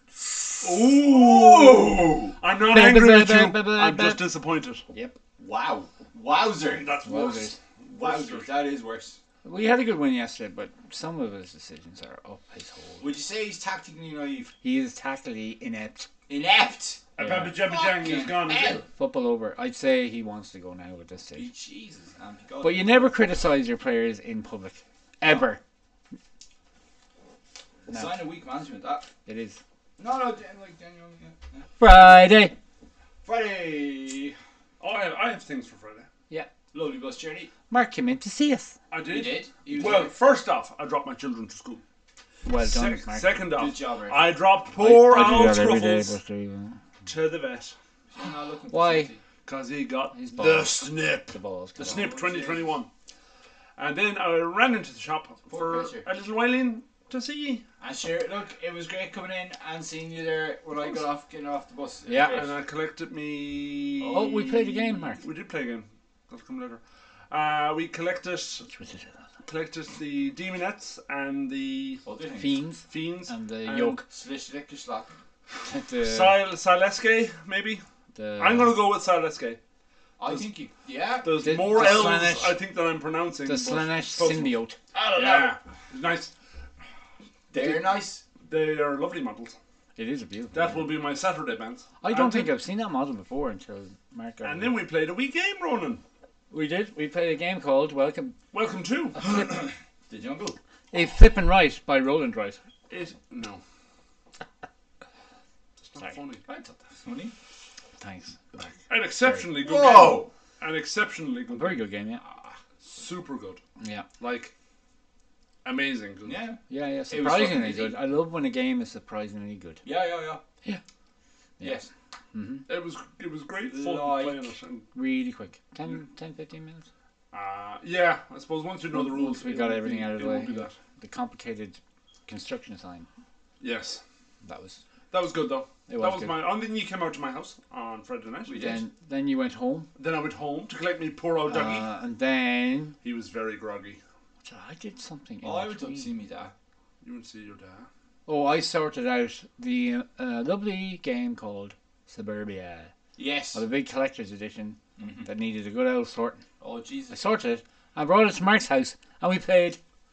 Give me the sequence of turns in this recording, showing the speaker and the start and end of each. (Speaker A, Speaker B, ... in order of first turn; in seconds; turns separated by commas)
Speaker A: 0.6-2.4, Speaker B: 0.6-4.8, Speaker C: 2.6-4.2, Speaker A: 5.4-6.9, Speaker B: 6.7-8.5, Speaker C: 7.0-7.6, Speaker A: 7.9-9.2, Speaker C: 9.4-13.1, Speaker A: 13.0-14.5, Speaker C: 14.6-16.1, Speaker A: 16.3-18.8, Speaker B: 17.2-18.8, Speaker C: 17.2-17.6, Speaker C: 18.9-21.5, Speaker A: 21.4-23.2, Speaker C: 22.6-25.6, Speaker A: 25.2-25.5, Speaker A: 27.9-29.1, Speaker C: 29.3-29.6, Speaker A: 30.0-32.3, Speaker C: 31.8-32.5, Speaker A: 33.2-34.4, Speaker B: 34.8-36.1, Speaker A: 36.7-37.5, Speaker C: 37.7-38.8, Speaker B: 38.9-41.8, Speaker A: 39.0-40.1, Speaker C: 42.5-43.4, Speaker B: 42.5-46.1, Speaker A: 43.5-44.4, Speaker C: 44.8-46.8, Speaker B: 47.0-47.8, Speaker A: 48.1-49.2, Speaker C: 48.7-49.1, Speaker B: 49.5-52.9, Speaker C: 50.1-52.1, Speaker A: 51.8-52.8, Speaker B: 53.8-57.6, Speaker A: 55.5-56.1, Speaker A: 57.8-62.5, Speaker C: 62.1-62.4, Speaker B: 62.2-68.7, Speaker A: 64.0-64.8, Speaker C: 64.1-65.2, Speaker C: 68.7-69.2, Speaker B: 69.5-72.0, Speaker A: 72.0-72.6, Speaker C: 72.4-74.0, Speaker B: 72.9-74.0, Speaker A: 74.1-75.1, Speaker C: 75.7-76.4, Speaker B: 76.0-77.8, Speaker C: 78.2-78.8, Speaker B: 78.4-79.6, Speaker A: 80.2-82.3, Speaker B: 81.2-84.6, Speaker C: 81.4-82.6, Speaker C: 83.5-84.8, Speaker A: 84.9-85.6, Speaker B: 85.1-86.3, Speaker A: 87.5-88.2, Speaker B: 88.5-89.6, Speaker C: 90.0-90.9, Speaker B: 90.5-92.5, Speaker C: 92.0-94.8, Speaker B: 94.4-96.0, Speaker C: 96.5-98.3, Speaker B: 98.5-99.4, Speaker A: 99.2-100.6, Speaker C: 100.9-102.6, Speaker B: 102.9-103.6, Speaker B: 105.8-106.4, Speaker A: 106.5-107.3, Speaker C: 108.0-109.5, Speaker B: 108.9-111.8, Speaker A: 109.6-110.3, Speaker C: 111.5-112.2, Speaker A: 112.2-112.6, Speaker B: 112.9-113.6, Speaker C: 113.8-114.1, Speaker B: 114.2-114.5, Speaker B: 115.6-116.4, Speaker A: 116.2-118.0, Speaker C: 116.7-119.8, Speaker A: 119.8-120.4, Speaker A: 121.6-121.9, Speaker C: 122.3-122.7, Speaker B: 122.7-124.9, Speaker A: 123.6-124.5, Speaker C: 124.9-126.9, Speaker B: 127.3-130.7, Speaker C: 128.9-133.1, Speaker B: 133.6-134.0, Speaker C: 134.4-134.8, Speaker B: 135.1-138.8, Speaker C: 135.9-136.5, Speaker A: 138.5-138.8, Speaker C: 138.5-139.9, Speaker B: 140.0-141.9, Speaker C: 141.5-143.0, Speaker B: 143.0-144.0, Speaker C: 144.4-146.1, Speaker A: 145.4-146.5, Speaker B: 147.0-147.9, Speaker C: 148.3-152.9, Speaker A: 153.2-153.6, Speaker C: 153.5-156.4, Speaker A: 155.0-155.3, Speaker A: 156.6-157.2, Speaker C: 157.1-159.8